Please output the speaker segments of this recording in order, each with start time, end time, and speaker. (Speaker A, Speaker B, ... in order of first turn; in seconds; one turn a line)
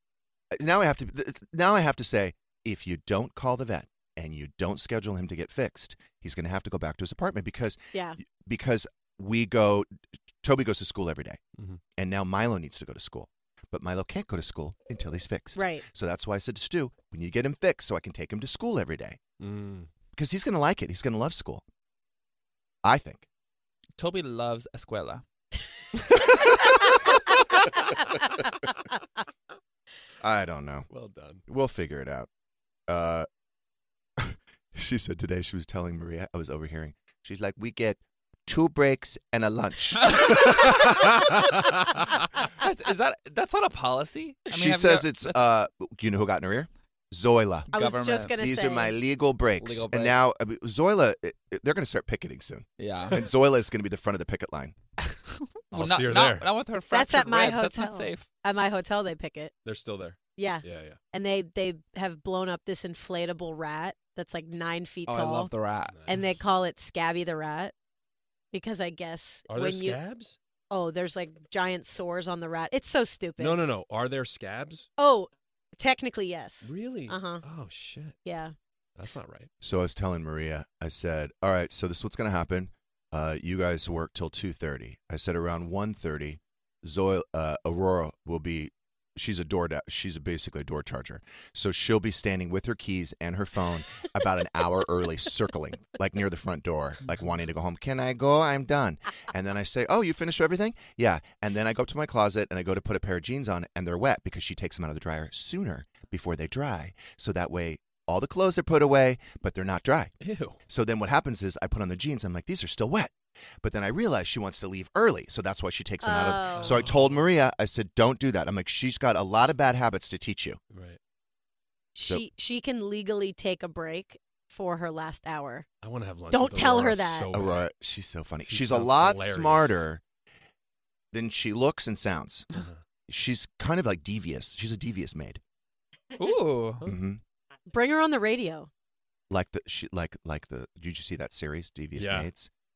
Speaker A: 0.5-11.4
Speaker A: 12.0-19.2
Speaker B: 15.6-15.8
Speaker C: 19.4-19.9
Speaker A: 20.1-21.6
Speaker A: 22.8-23.3
Speaker D: 24.0-25.2
Speaker C: 26.0-26.3
Speaker A: 30.2-30.9
Speaker C: 30.9-31.4
Speaker A: 31.5-32.3
Speaker A: 32.9-33.3
Speaker A: 34.2-40.5
Speaker D: 40.0-40.7
Speaker C: 40.5-41.4
Speaker D: 42.4-45.4
Speaker A: 44.5-47.7
Speaker D: 47.7-48.4
Speaker B: 47.7-49.0
Speaker A: 48.4-54.8
Speaker D: 49.6-50.2
Speaker D: 52.8-53.3
Speaker D: 55.0-58.3
Speaker C: 55.7-56.5
Speaker B: 56.9-59.5
Speaker C: 59.6-61.0
Speaker B: 60.4-65.5
Speaker D: 65.1-66.0
Speaker C: 65.9-66.4
Speaker B: 66.1-67.7
Speaker B: 68.5-70.0
Speaker C: 69.5-70.4
Speaker B: 70.7-73.7
Speaker C: 73.4-74.9
Speaker B: 75.0-77.5
Speaker C: 76.6-78.2
Speaker B: 78.2-78.5
Speaker C: 79.0-79.5
Speaker A: 79.6-110.1
Speaker C: 110.2-110.6
Speaker A: 110.7-120.6
Speaker B: 116.0-116.8
Speaker C: 116.6-117.3
Speaker C: 120.7-121.0
Speaker B: 122.0-125.7
Speaker C: 125.8-127.7
Speaker B: 126.3-127.3
Speaker A: 127.3-130.0
Speaker C: 128.4-129.8
Speaker A: 131.1-132.5
Speaker C: 132.5-132.8
Speaker A: 133.1-135.4
Speaker D: 136.2-136.8
Speaker A: 136.8-137.2
Speaker B: 137.7-138.7
Speaker A: 139.3-142.5
Speaker C: 142.0-142.3